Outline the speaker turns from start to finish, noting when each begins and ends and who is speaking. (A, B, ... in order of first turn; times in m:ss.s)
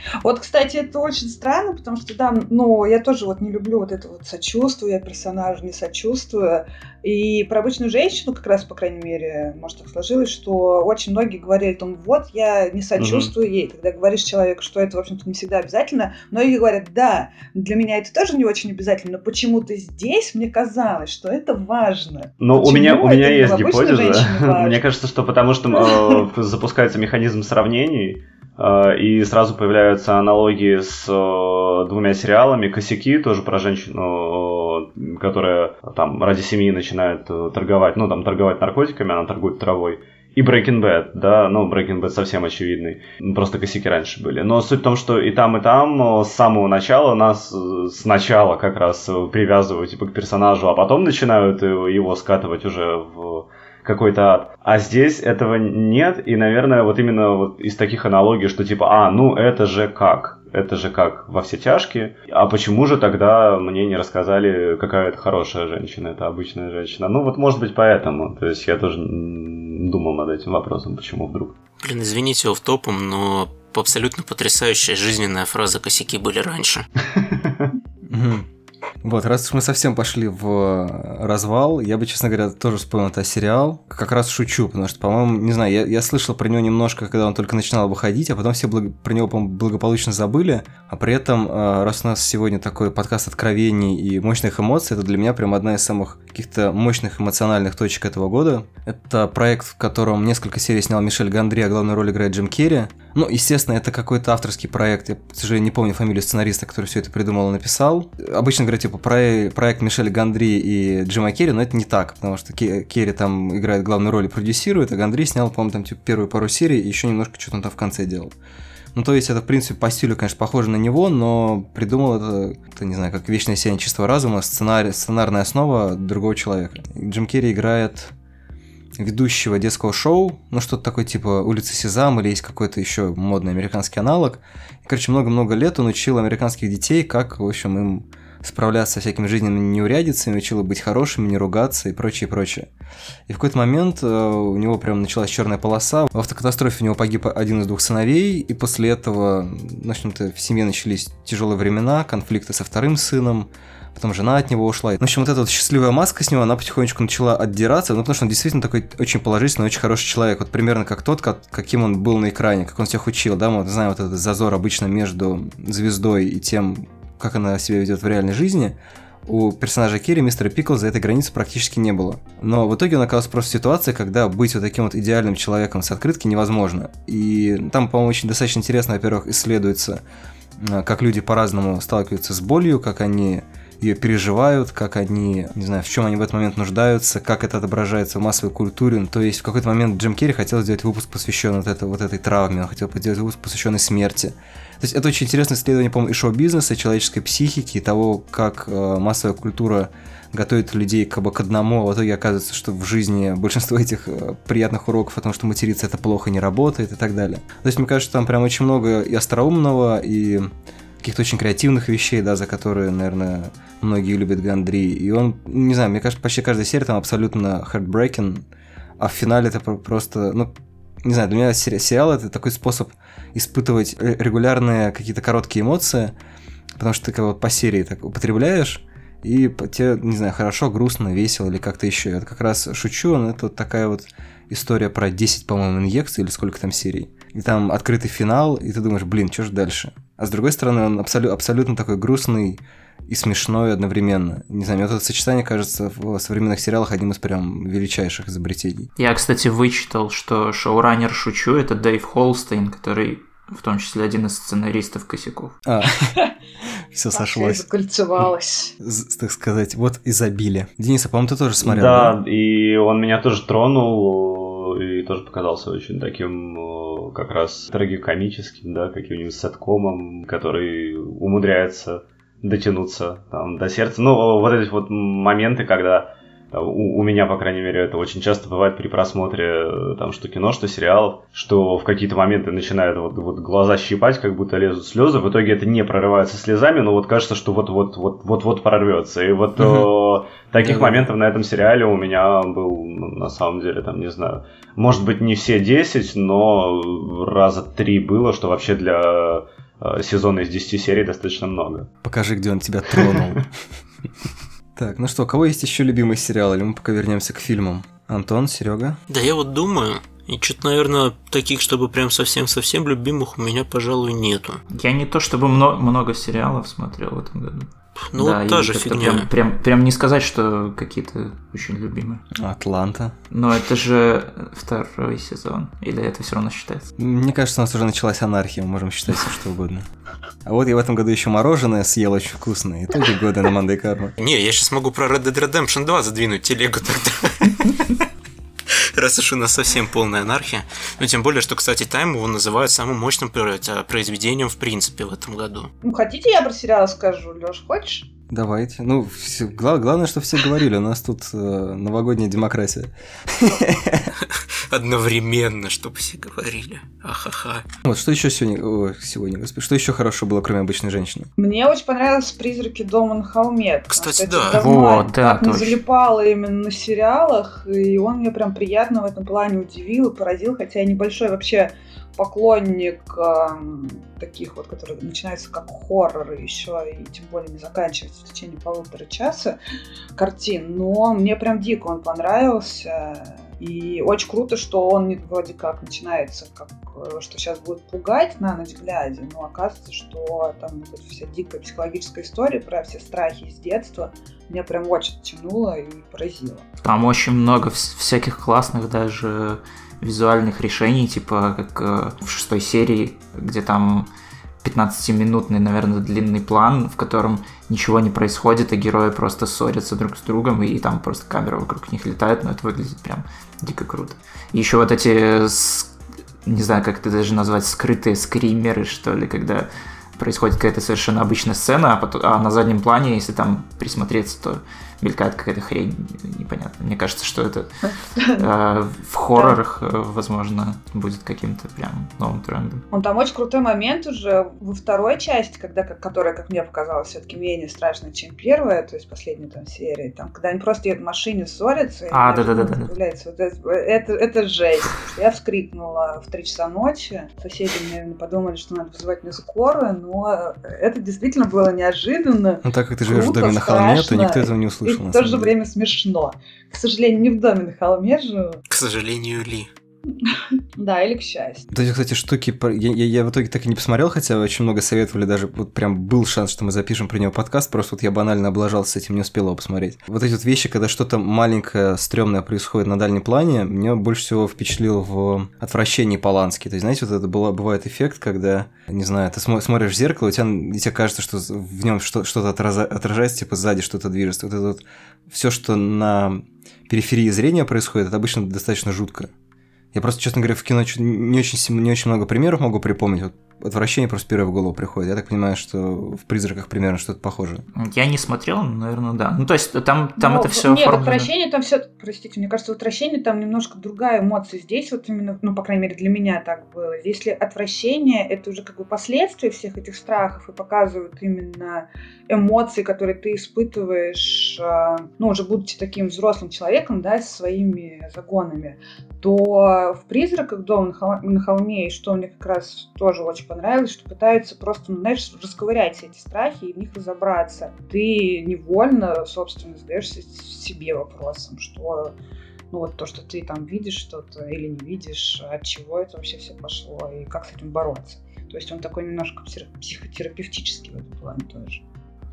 0:00.2-0:24.8 A
0:13.0-0:13.3 B
0:22.4-1:11.6 B
0:25.8-0:26.2 A
1:11.8-1:16.9 C
1:17.1-1:17.7 B
1:18.1-1:18.5 D
1:19.0-1:58.3 D
1:58.9-2:08.1 D
2:09.0-2:22.7 D
2:23.3-3:00.0 D
3:00.6-3:30.5 D
3:31.0-3:38.4 D
3:39.0-3:40.5 D
3:41.0-3:46.1 D
3:46.8-4:08.9 D
4:09.0-4:15.6 E
4:15.7-4:16.2 D
4:16.9-4:17.6 D
4:17.1-4:18.7 A
4:18.8-4:22.2 D
4:21.6-5:01.9 B
4:49.6-4:49.9 D
4:50.6-4:51.1 D
5:02.0-5:03.5 D
5:04.8-5:09.0 D
5:09.1-5:14.6 C
5:14.7-5:22.2 E
5:18.1-5:19.3 C
5:22.4-5:23.2 D
5:23.3-5:26.9 E
5:27.0-5:29.9 D
5:30.4-5:34.1 D
5:34.2-5:38.0 C
5:38.7-5:45.7 C
5:45.8-5:48.1 A
5:48.3-5:54.1 D
5:54.2-5:57.7 C
5:57.8-6:01.3 D
6:01.4-6:19.6 A
6:03.9-6:04.7 C
6:04.6-6:05.8 E
6:20.2-6:36.7 A
6:36.8-6:44.1 E
6:44.6-6:55.9 E
6:56.4-7:07.7 E
7:08.1-7:08.5 A
7:08.4-7:12.8 E
7:12.9-7:38.6 A
7:22.1-7:22.9 E
7:32.6-7:35.5 D
7:38.7-7:39.7 C
7:40.3-7:41.7 A
7:41.7-8:09.3 D
8:09.9-8:17.6 D
8:17.8-8:21.3 E
8:20.2-8:52.2 A
8:52.7-9:01.8 A